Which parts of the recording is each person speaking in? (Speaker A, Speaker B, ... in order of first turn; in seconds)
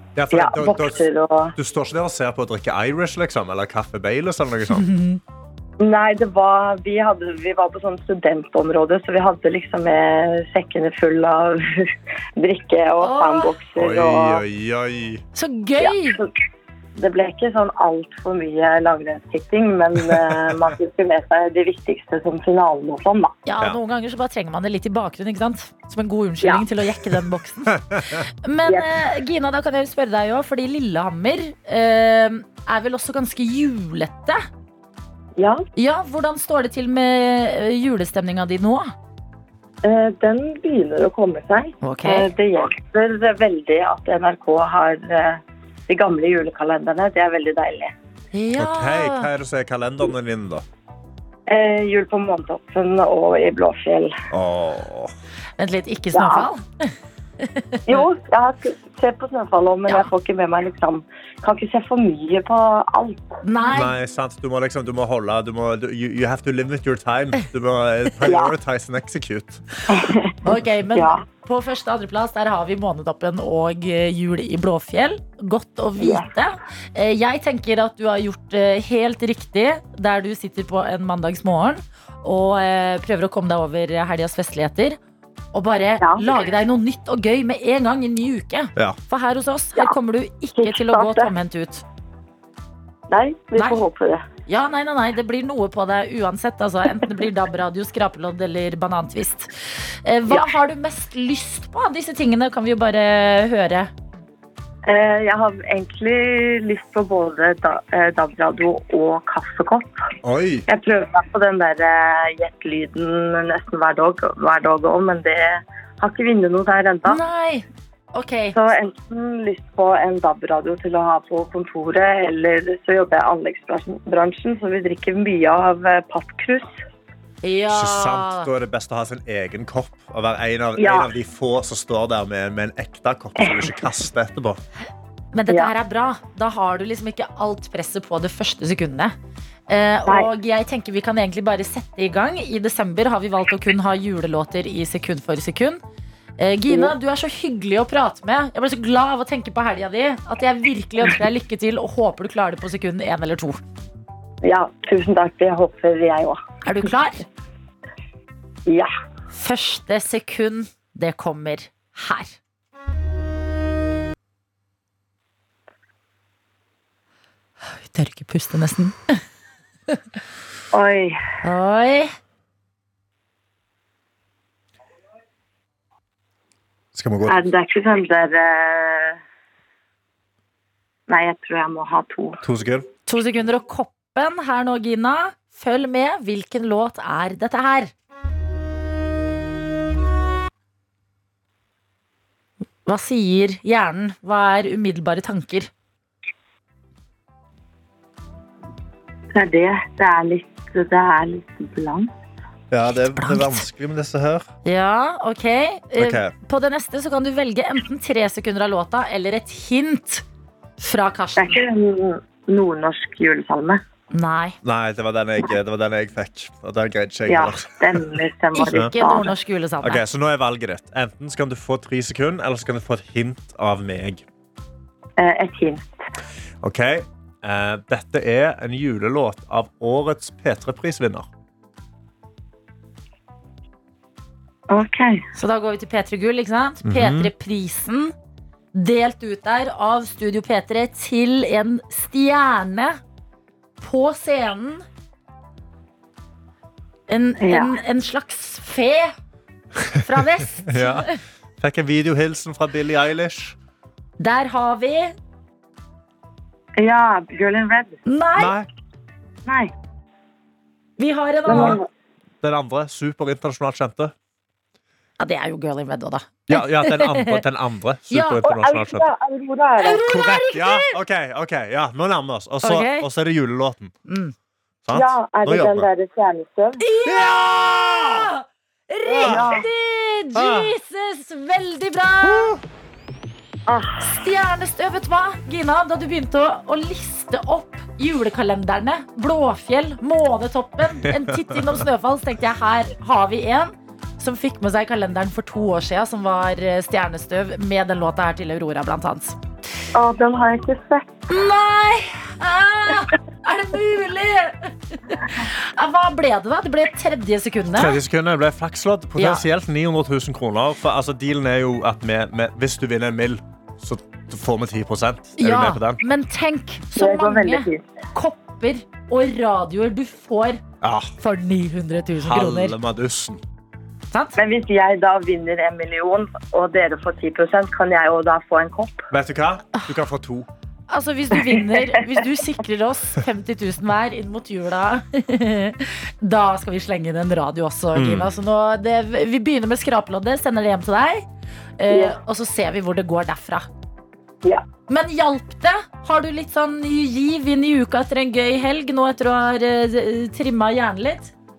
Speaker A: 0.1-4.9, 13.8-15.2, 27.7-28.1, 48.6-50.6, 54.3-55.1, 63.7-69.6, 110.2-110.7, 127.7-134.6, 176.9-177.4, 182.4-182.9, 202.7-204.5, 206.0-206.3, 214.6-218.1, 218.7-218.9, 219.8-224.2, 226.6-231.3, 236.8-237.3, 250.7-253.6, 258.4-258.7, 261.5-261.8, 262.4-264.1, 266.5-269.1, 270.0-273.9, 274.8-275.9, 277.0-278.3, 279.0-279.5, 280.3-280.7, 282.2-282.6, 291.0-291.8, 307.7-316.0, 320.8-321.1, 322.2-323.4, 329.1-330.5, 337.9-338.3
Speaker B: 0.3-1.5, 5.8-14.4, 15.8-16.3, 17.0-23.3, 28.6-28.9, 35.4-35.6, 39.8-47.9, 51.5-54.1, 56.1-56.5, 57.9-63.4, 68.2-68.5, 69.9-70.3, 70.9-71.2, 76.0-76.3, 86.0-86.3, 90.6-91.3, 93.1-94.2, 104.8-110.0, 110.7-117.2, 118.5-126.7, 130.8-131.1, 133.4-133.9, 154.4-156.4, 170.7-171.2, 177.2-179.2, 181.1-182.4, 199.3-202.1, 211.4-213.8, 217.3-219.3, 225.2-225.9, 234.7-235.2, 247.4-247.8, 256.8-258.0, 259.4-259.7, 261.4-261.9, 268.4-270.1, 274.9-276.8, 279.2-279.6, 283.7-284.1, 299.9-301.1, 316.9-317.8, 324.4-329.0, 341.9-342.1
Speaker C: 4.8-5.2, 13.0-13.5, 15.3-16.2, 23.4-34.4, 35.8-38.9, 41.8-42.3, 48.3-49.3, 55.6-58.1, 63.4-63.9, 70.4-85.0, 85.5-91.8, 94.5-99.5, 100.0-103.9, 117.1-118.5, 127.4-128.5, 135.3-139.1, 139.7-145.8, 146.4-153.6, 156.6-157.2, 159.3-162.4, 167.8-169.2, 171.4-172.1, 183.1-187.9, 192.8-195.7, 202.9-203.6, 204.6-210.2, 210.8-211.6, 214.1-214.6, 218.6-220.0, 235.3-238.1, 238.7-243.0, 243.8-244.8, 247.1-249.1, 250.0-251.2, 254.2-255.1, 258.1-258.6, 261.0-261.8, 265.2-267.4, 268.1-268.4, 269.8-271.0, 272.6-273.1, 274.1-274.3, 276.8-277.5, 278.0-282.5, 284.0-299.4, 301.3-308.0, 309.2-309.4, 315.4-320.6, 321.2-322.8, 330.9-341.2, 341.8-343.7, 344.9-351.3